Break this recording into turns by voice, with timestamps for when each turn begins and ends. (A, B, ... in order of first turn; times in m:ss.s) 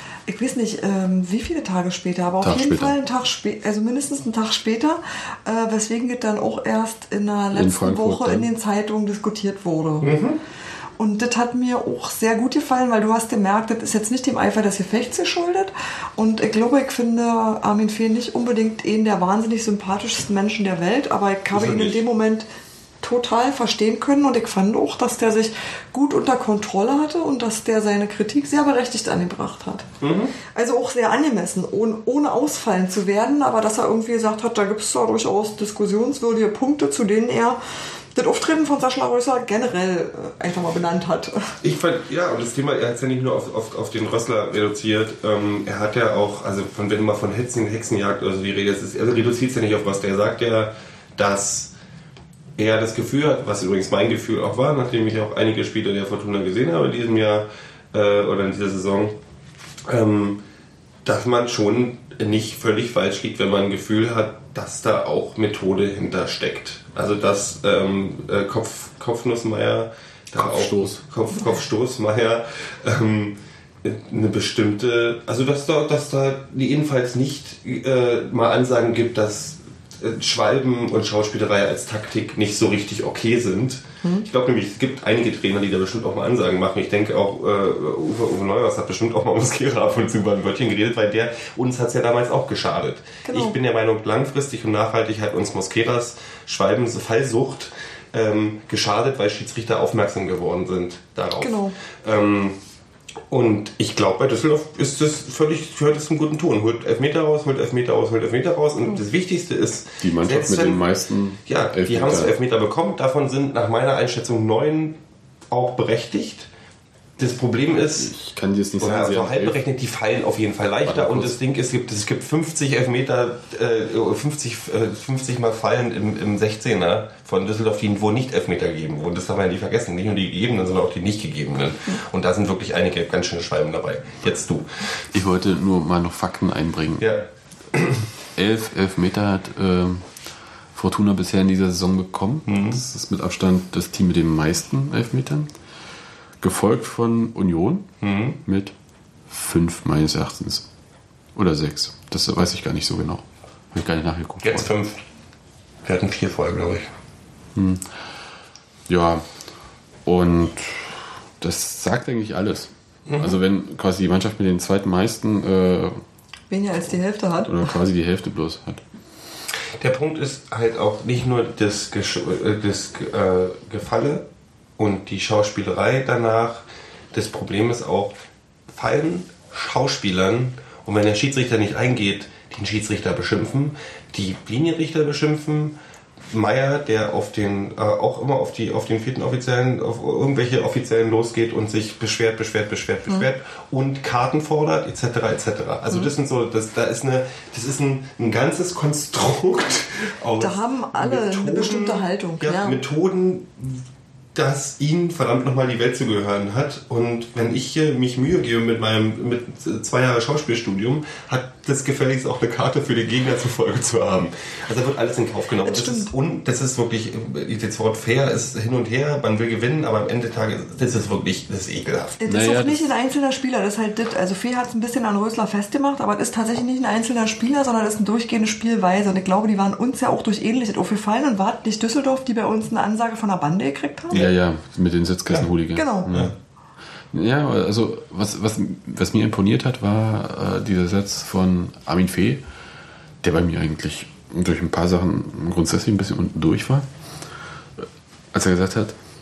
0:00.3-0:10.1 A
0:02.4-0:03.0 B
0:07.5-0:08.5 B
0:10.0-0:10.4 C
0:11.0-0:22.5 A
0:21.5-0:22.0 C
0:23.0-0:29.9 A
0:30.0-0:30.4 C
0:30.5-0:37.6 A
0:38.2-0:41.5 A
0:41.6-0:51.7 C
0:52.6-0:59.2 C
0:59.9-1:00.4 C
1:01.0-1:42.6 C
1:10.4-1:11.0 B
1:33.2-1:33.6 A
1:41.4-1:41.8 A
1:43.3-1:50.9 C
1:50.0-1:52.3 B
1:51.5-1:56.5 C
1:57.2-1:58.1 C
1:58.0-1:59.6 B
1:58.8-2:14.7 C
2:00.8-2:01.4 B
2:15.1-2:17.2 B
2:17.0-2:18.0 C
2:18.4-2:20.1 B
2:20.7-2:25.5 B
2:22.5-2:22.8 C
2:26.4-2:27.9 B
2:28.0-2:28.4 C
2:28.4-2:28.7 B
2:29.3-2:30.7 B
2:31.4-2:34.8 B
2:34.4-2:35.0 C
2:35.8-2:36.9 C
2:37.6-2:37.8 B
2:38.9-2:39.2 B
2:40.0-2:46.0 B
2:43.1-2:43.4 C
2:46.5-2:47.5 A
2:47.5-2:48.8 B
2:49.8-2:54.3 C
2:54.8-2:58.2 C
2:58.7-3:05.8 C
3:06.3-3:42.2 C
3:20.4-3:22.8 A
3:35.6-3:36.1 A
3:42.2-3:54.2 A
3:42.3-3:42.9 B
3:54.1-3:56.3 B
3:55.8-3:56.1 A
3:56.1-3:56.3 C
3:57.1-4:02.4 B
4:03.2-4:06.9 B
4:07.8-4:09.0 B